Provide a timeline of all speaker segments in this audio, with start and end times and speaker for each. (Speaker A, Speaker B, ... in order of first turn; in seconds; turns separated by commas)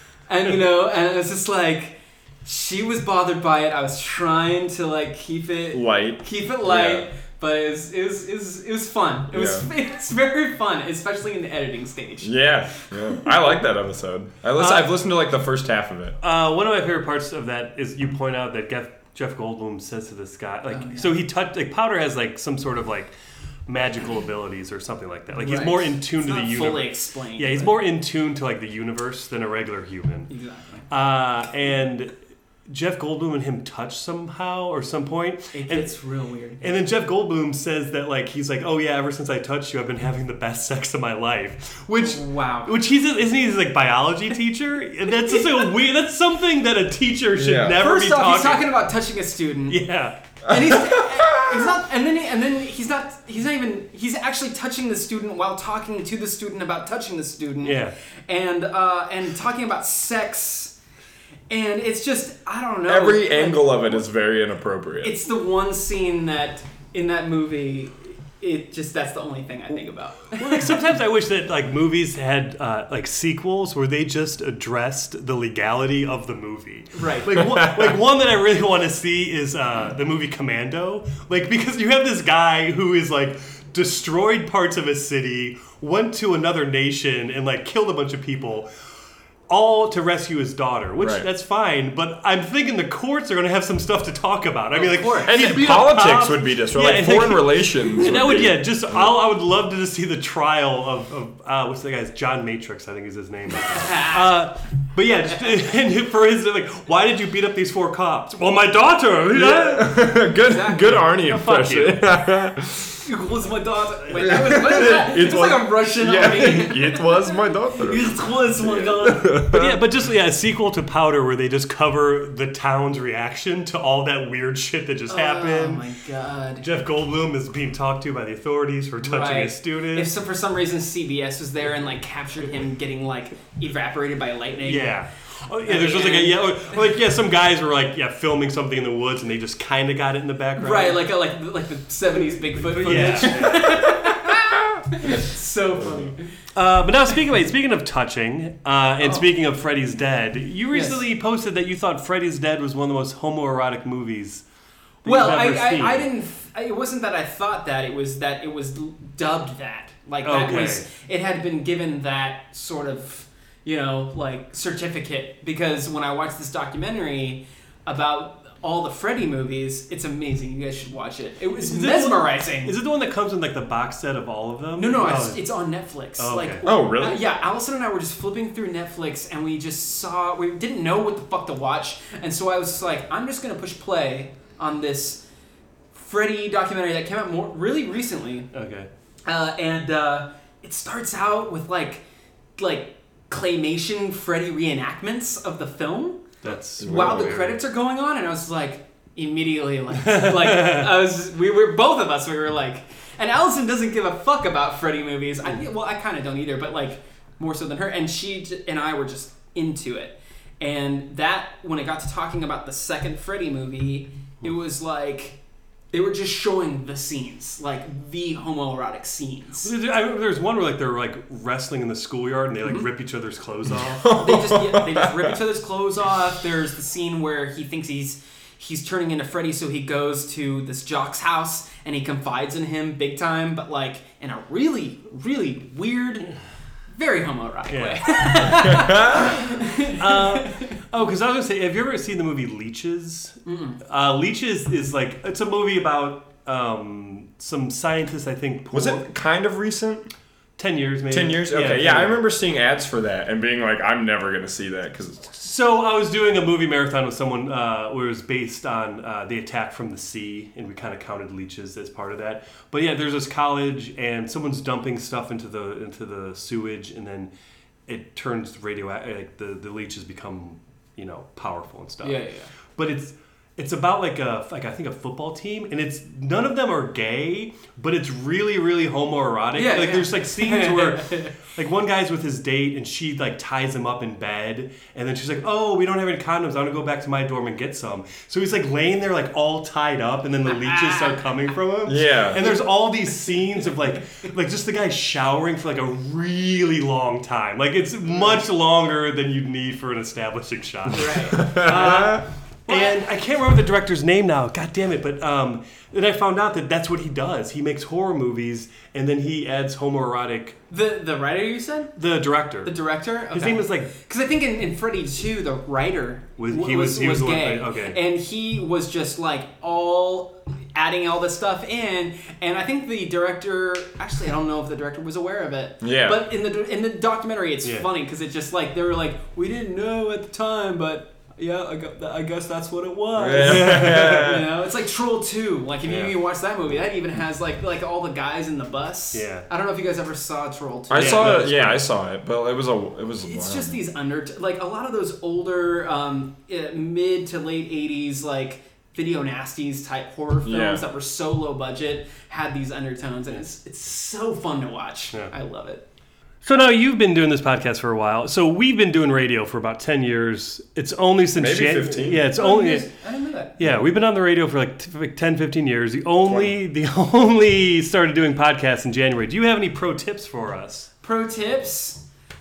Speaker A: 0.3-12.3, Speaker B: 5.7-7.0, Speaker B: 9.3-9.7, Speaker B: 12.2-16.2, Speaker C: 14.6-14.9, Speaker C: 16.2-23.1, Speaker A: 20.7-21.2, Speaker C: 23.7-30.3, Speaker A: 25.4-27.7, Speaker A: 30.3-30.9, Speaker C: 30.9-32.1, Speaker C: 32.7-35.9, Speaker A: 35.5-36.7, Speaker C: 36.6-48.7, Speaker A: 42.0-42.7, Speaker B: 47.4-47.8, Speaker A: 47.8-49.8, Speaker C: 49.7-50.2, Speaker A: 50.4-60.8, Speaker B: 50.5-51.7, Speaker C: 57.6-57.9, Speaker A: 61.5-64.0, Speaker B: 62.9-65.1, Speaker A: 65.0-70.8, Speaker C: 70.4-88.7, Speaker A: 76.9-77.4, Speaker C: 89.5-110.1, Speaker B: 91.0-91.3, Speaker A: 94.7-95.7, Speaker B: 95.2-99.1, Speaker A: 103.8-104.3, Speaker B: 109.3-113.0, Speaker A: 110.4-111.1, Speaker C: 111.0-112.1, Speaker A: 113.0-119.4, Speaker B: 114.2-119.8, Speaker C: 119.5-125.8, Speaker A: 125.1-126.7, Speaker C: 126.6-130.1, Speaker A: 129.0-134.9, Speaker C: 134.6-141.1, Speaker A: 135.6-136.8, Speaker A: 140.6-146.3, Speaker C: 142.5-143.8, Speaker C: 146.5-154.4, Speaker A: 150.7-151.0, Speaker C: 155.0-156.1, Speaker A: 155.0-172.7, Speaker C: 160.2-160.8, Speaker C: 171.6-175.4, Speaker A: 174.8-185.2, Speaker C: 176.2-176.6, Speaker B: 176.6-177.2, Speaker A: 185.9-188.5, Speaker C: 188.5-188.9, Speaker A: 189.2-192.0, Speaker A: 192.6-196.3, Speaker C: 196.4-197.6, Speaker B: 196.8-197.4, Speaker A: 196.8-215.4, Speaker C: 200.1-200.8, Speaker A: 215.9-219.7, Speaker C: 219.6-224.1, Speaker B: 224.0-225.3, Speaker A: 224.1-236.3, Speaker A: 236.9-240.7, Speaker C: 237.7-238.8, Speaker B: 238.7-239.3, Speaker C: 239.8-249.1, Speaker A: 243.4-243.8, Speaker B: 248.7-250.1, Speaker C: 250.6-252.2, Speaker B: 251.1-255.3, Speaker C: 255.4-267.3, Speaker C: 267.9-272.2, Speaker A: 272.0-272.5, Speaker C: 272.8-310.6, Speaker A: 279.6-281.3, Speaker A: 290.5-291.2, Speaker B: 291.9-292.4, Speaker A: 300.9-303.0, Speaker B: 301.3-302.2, Speaker A: 310.7-311.9, Speaker C: 312.0-312.8, Speaker A: 312.6-341.7, Speaker C: 313.3-313.9, Speaker C: 316.4-318.0, Speaker B: 325.8-326.2, Speaker B: 333.1-334.5, Speaker C: 333.4-334.3, Speaker C: 335.9-336.1, Speaker C: 339.1-339.4, Speaker B: 340.9-343.8, Speaker C: 340.9-341.8, Speaker A: 343.2-355.8, Speaker B: 350.4-350.8, Speaker C: 356.4-362.9, Speaker B: 361.4-362.3, Speaker A: 362.3-363.6, Speaker C: 363.6-370.9, Speaker B: 366.2-366.5, Speaker A: 371.0-372.0